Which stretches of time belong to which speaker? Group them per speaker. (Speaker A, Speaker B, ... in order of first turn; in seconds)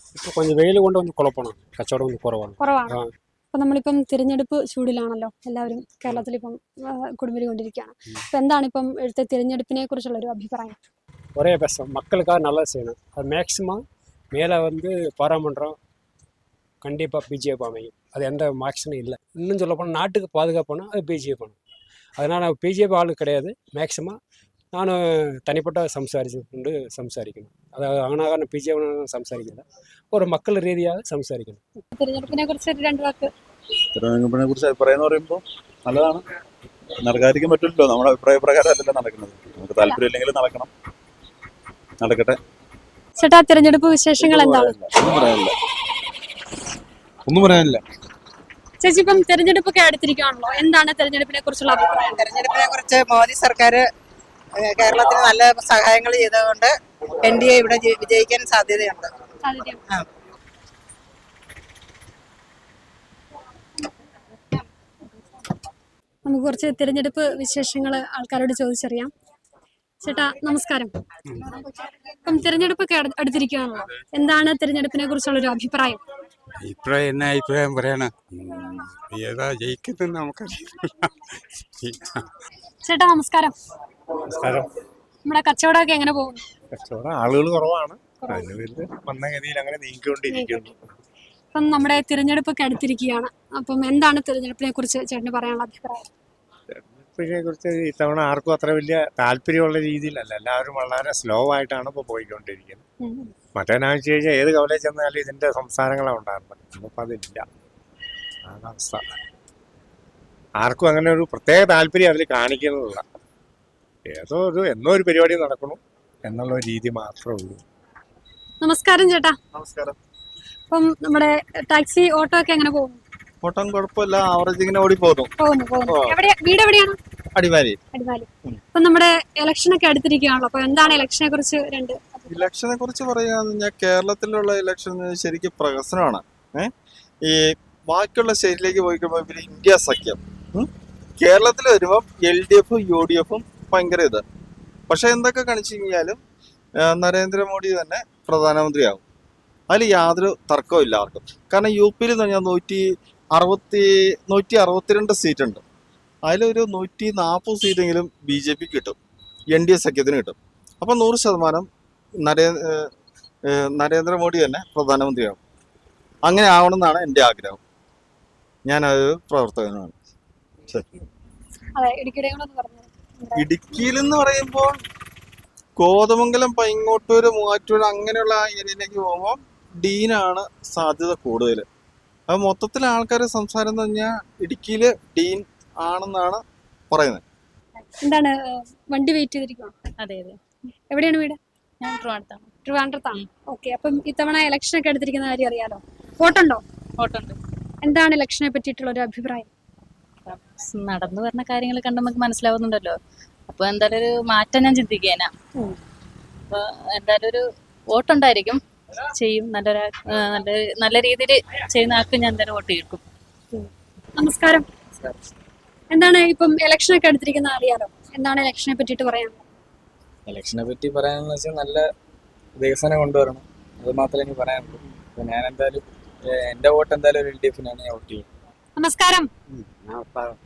Speaker A: 0.1-3.1, 11.3-13.8, 14.3-15.8, 16.8-21.6, 22.2-24.2, 24.7-31.6
Speaker B: 2.6-3.0, 3.5-10.8, 31.9-33.3, 43.2-44.8, 48.8-52.2, 59.4-59.8, 66.2-69.1, 70.0-70.9, 72.1-76.0, 82.8-83.5, 85.2-86.4, 88.2-88.5, 90.3-90.7, 91.5-96.1, 103.0-103.3, 118.6-119.3, 120.7-123.0, 125.4-127.0, 127.9-132.4, 171.8-173.4, 188.0-189.7, 190.9-191.4, 192.6-196.6, 197.8-199.5, 213.5-214.7, 215.9-219.4, 228.8-229.3
Speaker C: 33.9-36.2, 37.0-40.7, 42.0-42.3
Speaker D: 52.2-53.8, 54.6-59.1
Speaker E: 76.7-78.1, 79.1-80.5, 229.9-230.2
Speaker F: 84.3-84.7, 86.9-90.7, 96.7-102.8, 103.5-107.4, 108.5-109.0, 110.6-113.0, 114.1-117.6
Speaker G: 119.5-119.9, 123.4-125.3, 125.9-126.1, 127.3-127.8, 132.3-136.7, 137.9-140.7, 141.2-144.2, 144.9-146.2, 146.9-149.0, 149.7-152.8, 153.3-155.6, 156.3-159.0, 159.5-161.7, 162.2-162.5, 163.5-165.4, 166.3-167.6, 168.7-169.9, 173.3-174.7, 175.8-181.7, 182.3-187.2
Speaker H: 190.0-190.4, 191.8-192.5, 197.0-197.4, 200.3-203.0, 203.5-205.3, 206.5-207.4, 207.9-208.6, 209.2-213.0
Speaker I: 220.3-221.8, 222.6-225.8, 226.3-228.2